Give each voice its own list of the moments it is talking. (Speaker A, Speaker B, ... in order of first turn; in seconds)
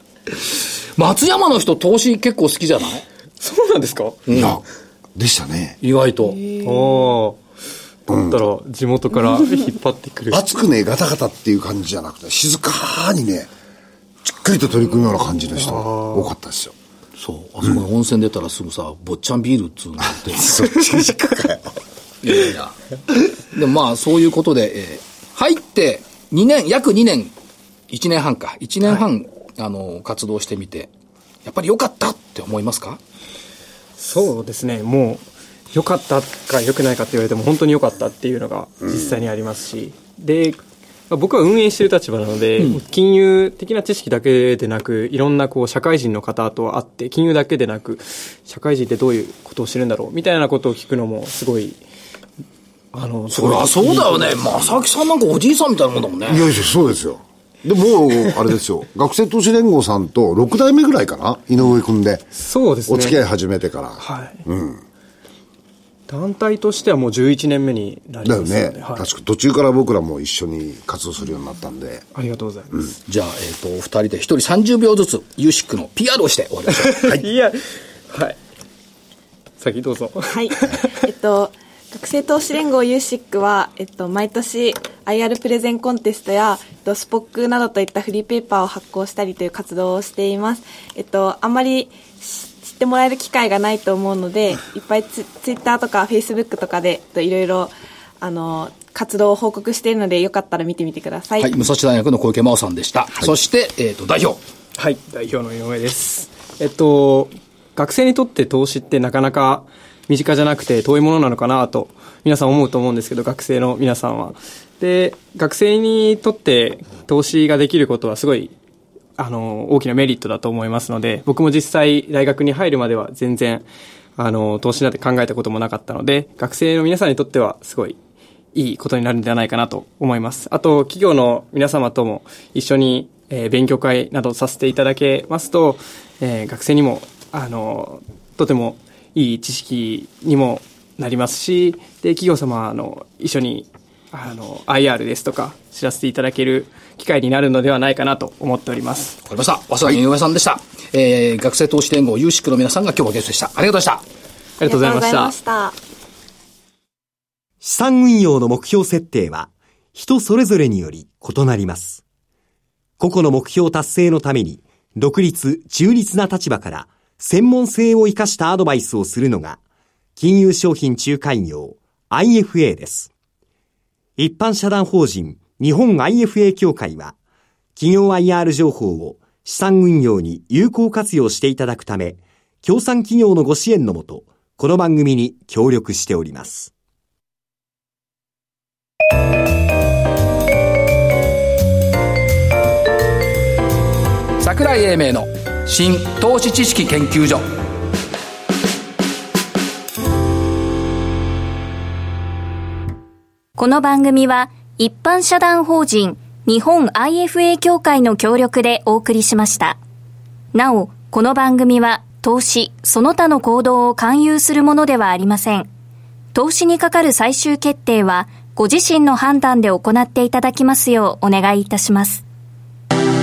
Speaker A: 1.0-3.0, 4.3-4.6, 5.8-6.4, 17.2-20.7, 22.2-22.7, 23.5-27.3, 27.9-30.9, 31.4-33.0, 53.3-56.5, 73.1-77.0, 101.4-104.4, 149.2-154.0, 194.4-197.5
Speaker B: 3.4-4.2, 6.6-7.4, 8.1-10.4, 15.6-16.3, 34.0-40.6, 41.1-51.8, 52.9-54.8, 62.3-63.2, 64.0-64.4, 66.1-69.0, 72.1-72.9, 76.8-78.4, 79.6-80.9, 104.8-118.5, 119.2-123.7, 124.2-128.0, 128.5-149.2, 154.6-155.3
Speaker C: 4.3-4.6, 5.1-5.8, 8.1-8.4, 10.3-13.5, 14.2-16.7, 20.2-21.7, 56.3-62.3, 62.9-64.8, 68.2-72.0
Speaker D: 6.4-7.1, 80.3-101.5, 154.6-155.8
Speaker E: 157.6-162.0, 163.0-169.6, 170.2-173.1, 174.2-177.1, 177.8-186.7
Speaker F: 203.6-209.8, 210.5-215.7, 216.3-222.2